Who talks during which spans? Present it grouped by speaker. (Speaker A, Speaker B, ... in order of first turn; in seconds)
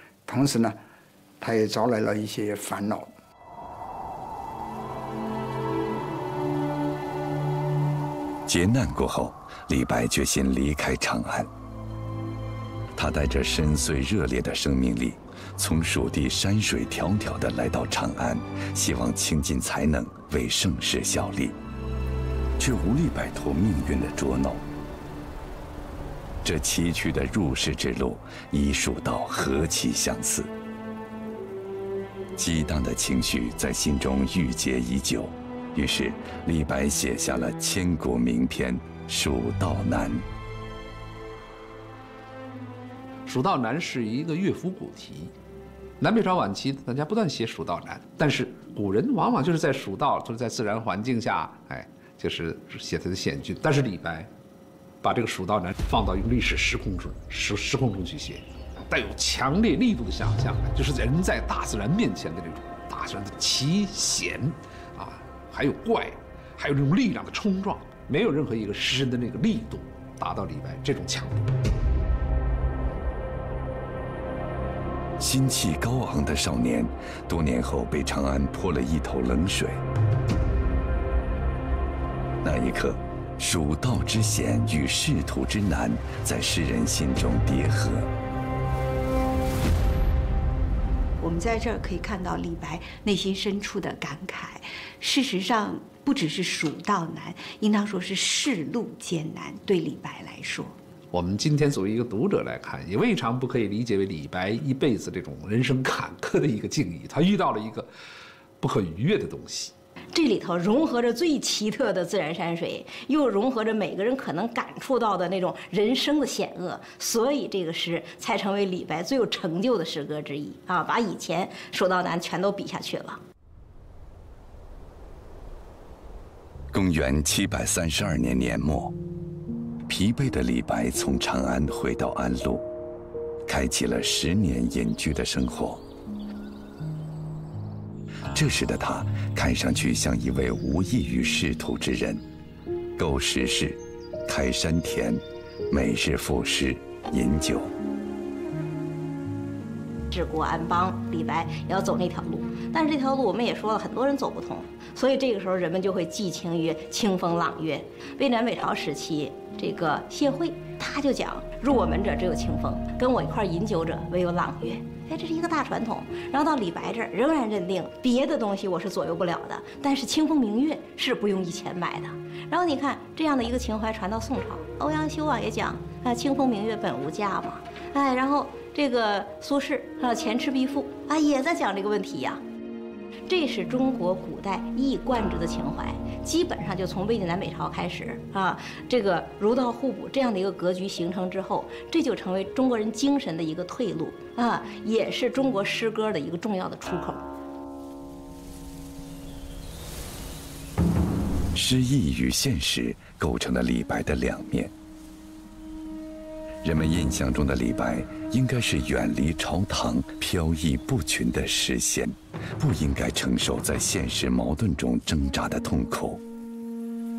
Speaker A: 0.3-0.8, 1.4-3.1
Speaker B: 8.5-11.5, 13.0-21.6, 22.6-24.6, 26.4-30.5, 32.4-40.3, 75.2-79.8, 82.4-88.1, 126.7-129.0, 129.9-132.7, 133.5-135.8, 138.3-142.2, 143.0-147.7, 201.5-204.7, 206.6-216.2
Speaker C: 43.3-45.3, 46.0-54.3, 55.0-71.5, 101.1-107.9, 108.6-109.7
Speaker D: 91.2-100.8
Speaker E: 110.1-123.2, 150.1-182.4, 183.3-197.2